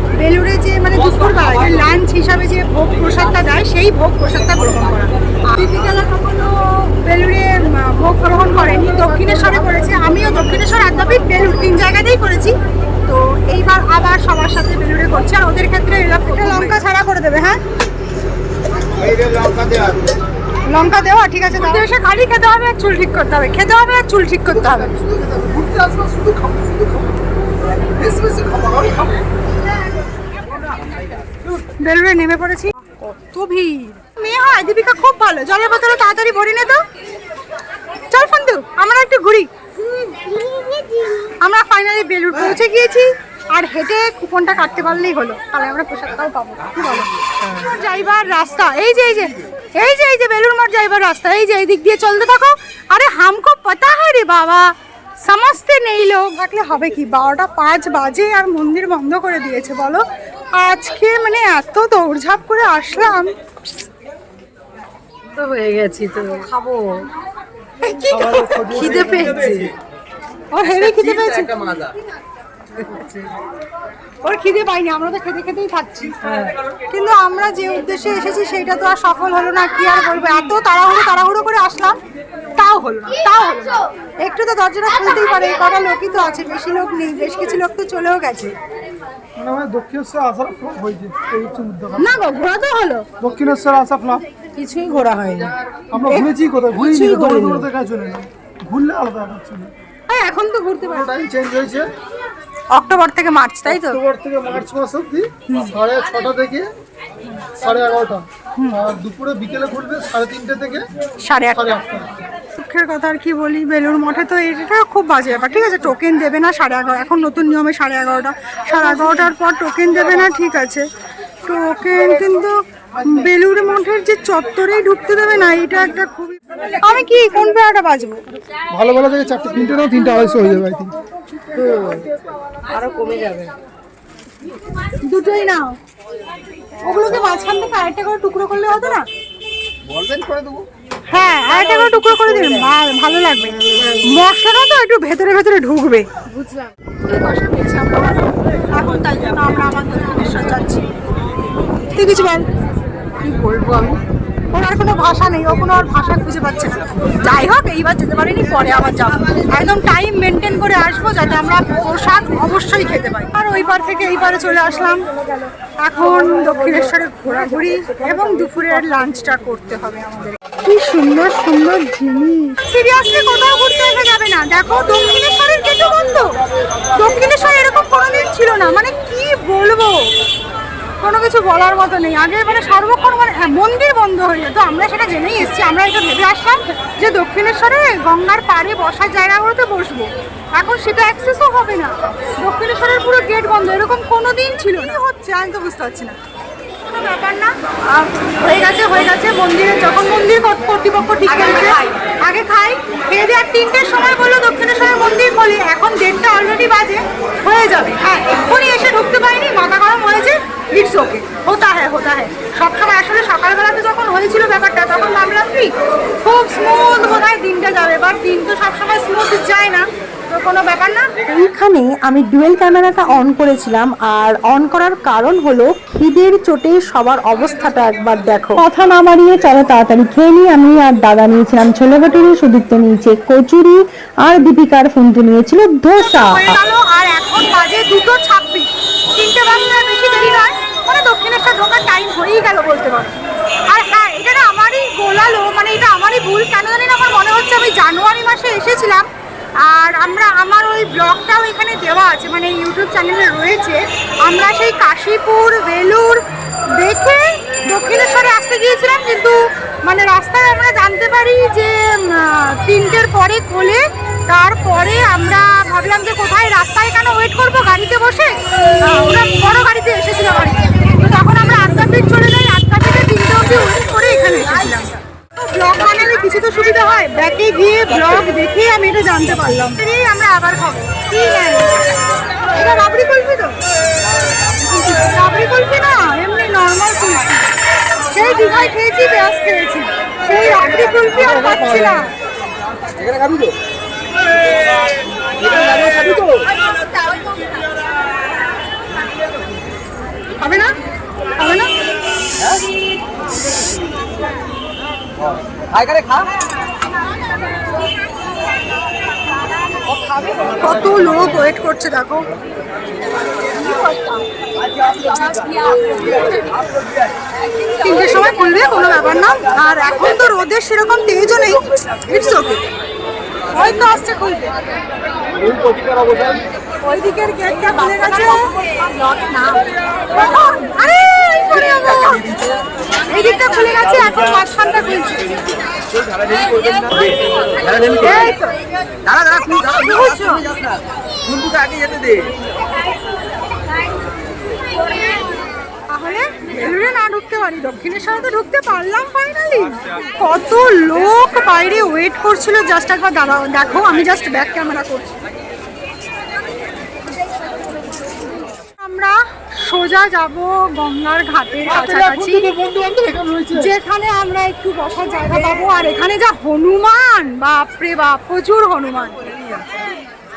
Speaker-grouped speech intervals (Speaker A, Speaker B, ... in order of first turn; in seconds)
Speaker A: 0.2-17.6, 20.7-24.9, 31.8-36.8, 38.1-39.5, 41.4-54.7, 55.2-60.0, 60.5-63.3, 67.8-68.8, 70.5-71.5, 74.2-76.1, 76.9-82.0, 82.6-88.5, 92.0-93.0, 96.1-97.5, 100.1-101.1, 102.7-104.0, 111.2-111.7, 112.6-120.8, 121.4-128.2, 135.0-135.7, 136.8-139.1, 141.1-146.2, 147.0-150.8, 151.9-152.4, 154.5-165.1, 165.8-176.4, 176.9-180.1, 181.0-196.2, 196.8-221.1, 236.0-243.2, 243.7-249.1, 249.6-256.2, 256.8-281.8, 282.5-283.6, 284.6-287.5, 288.1-292.1, 300.4-300.7, 301.4-301.7, 310.5-312.3, 313.6-314.2, 317.8-322.6, 323.5-324.6, 326.8-328.5, 330.1-332.3, 333.1-335.2, 337.9-338.6, 339.8-340.4, 345.9-355.2, 358.8-362.5, 363.5-369.3
Speaker B: 19.1-19.9, 24.5-27.1, 28.0-29.2, 68.1-69.6, 89.4-92.1, 93.2-94.2, 95.9-99.7, 100.8-101.9, 103.7-106.7, 107.5-110.8, 111.5-112.1, 128.7-130.9, 361.6-363.7
Speaker C: 65.3-67.1, 68.7-69.7, 72.8-73.2, 76.2-76.5, 94.6-95.5, 96.9-97.6, 131.5-132.1, 132.6-133.5, 141.5-142.6, 143.7-144.0, 153.2-154.0, 201.3-201.9, 309.9-310.6, 327.6-329.6, 339.9-340.2
Speaker D: 70.7-72.0, 140.0-140.4, 292.9-293.5, 295.4-296.6, 302.4-302.7, 305.2-306.3, 314.6-317.1, 325.4-326.4, 335.9-338.3, 339.0-342.3
Speaker E: 221.3-236.6